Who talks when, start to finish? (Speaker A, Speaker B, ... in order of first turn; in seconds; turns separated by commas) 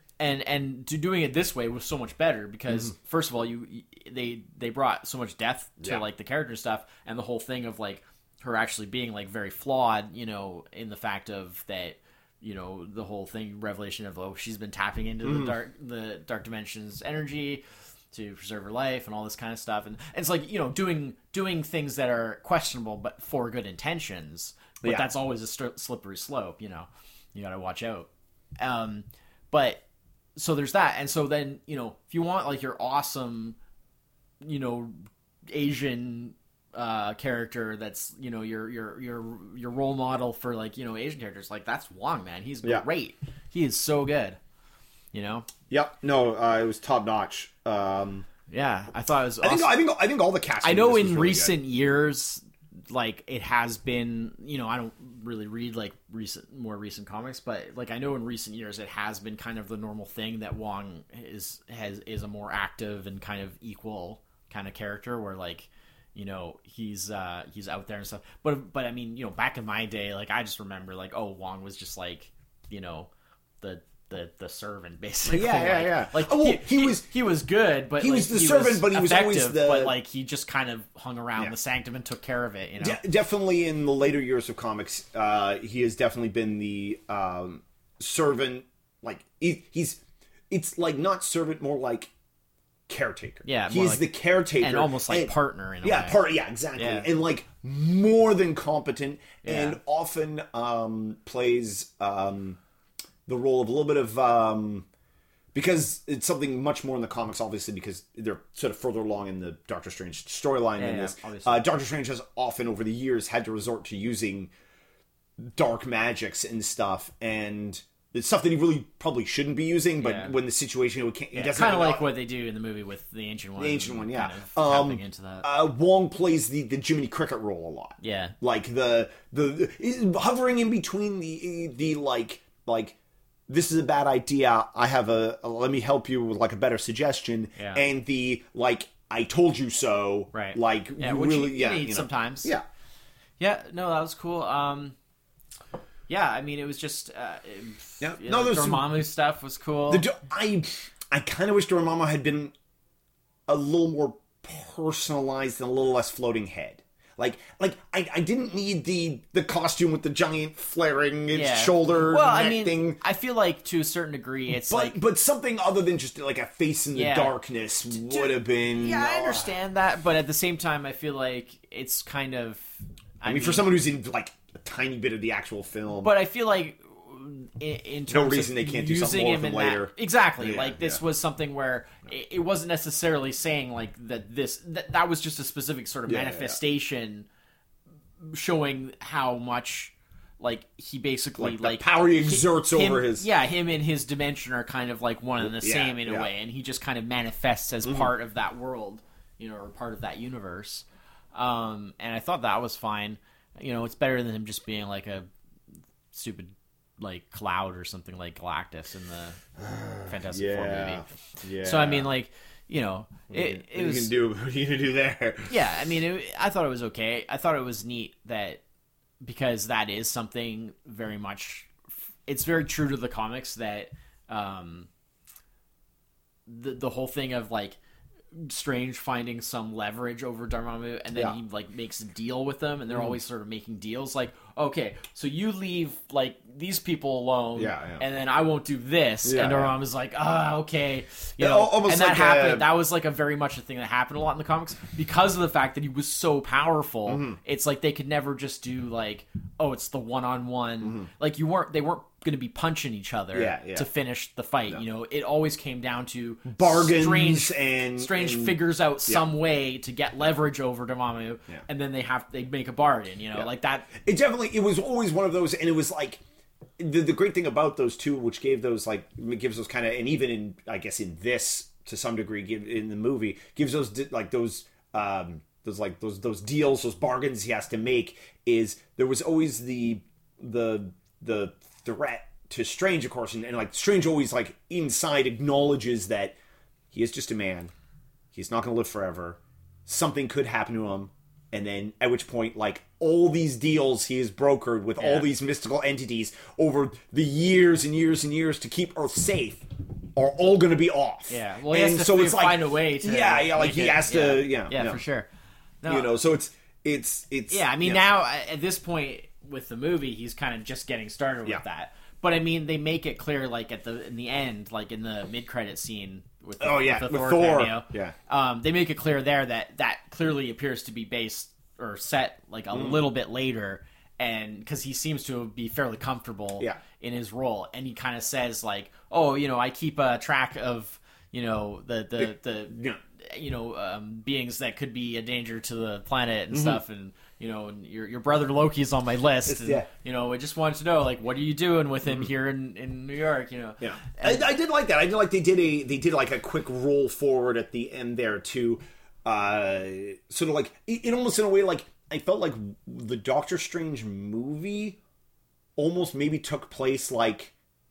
Speaker A: 0.2-28.1, Speaker B: 15.2-15.5, Speaker B: 24.8-25.1, Speaker A: 28.6-29.8, Speaker A: 30.4-33.6, Speaker A: 34.4-35.0, Speaker A: 35.5-44.4, Speaker A: 45.1-45.5, Speaker B: 45.7-48.2, Speaker A: 48.5-49.7, Speaker B: 49.4-51.6, Speaker A: 50.6-73.1, Speaker A: 73.6-83.0, Speaker B: 75.2-77.1, Speaker B: 78.0-80.0, Speaker B: 82.8-92.1, Speaker B: 92.9-102.6, Speaker A: 93.4-94.1, Speaker A: 94.6-96.2, Speaker A: 96.7-97.1, Speaker A: 99.4-99.8, Speaker B: 103.2-104.9, Speaker B: 105.5-114.5, Speaker A: 110.8-111.7, Speaker B: 115.4-122.1, Speaker A: 120.0-120.3, Speaker A: 121.3-125.5, Speaker B: 123.6-132.9, Speaker A: 128.0-128.3, Speaker B: 133.5-142.6, Speaker A: 137.6-137.8, Speaker A: 140.3-142.5, Speaker A: 143.4-144.9, Speaker A: 146.1-150.1, Speaker B: 148.0-148.8, Speaker B: 149.9-152.5, Speaker B: 153.5-163.0, Speaker A: 161.3-165.0, Speaker B: 164.7-169.5, Speaker A: 166.9-167.3, Speaker A: 167.9-173.7, Speaker B: 173.2-176.1, Speaker A: 176.0-187.3, Speaker B: 178.1-181.0, Speaker B: 186.1-186.6, Speaker A: 188.2-205.3, Speaker B: 191.4-193.3, Speaker B: 195.4-196.3, Speaker A: 206.1-209.4, Speaker B: 209.6-212.1, Speaker A: 210.1-214.1, Speaker B: 213.3-215.6, Speaker A: 215.5-218.6, Speaker A: 219.2-224.9, Speaker A: 226.4-227.8, Speaker A: 228.3-263.9, Speaker B: 237.5-238.0, Speaker B: 239.2-239.7, Speaker B: 241.4-242.7, Speaker B: 247.1-247.4, Speaker B: 250.8-251.1, Speaker B: 253.3-253.9, Speaker B: 256.5-259.2, Speaker B: 263.3-266.2, Speaker B: 266.8-286.4, Speaker B: 286.9-287.7, Speaker B: 288.3-305.0, Speaker A: 295.0-295.3, Speaker A: 301.3-305.3, Speaker A: 305.8-306.1, Speaker B: 305.9-308.0, Speaker A: 307.5-344.4, Speaker B: 316.6-318.1, Speaker B: 322.7-323.0, Speaker B: 332.2-333.0, Speaker B: 336.5-336.8, Speaker B: 339.4-339.9, Speaker B: 343.8-355.0, Speaker B: 355.8-357.5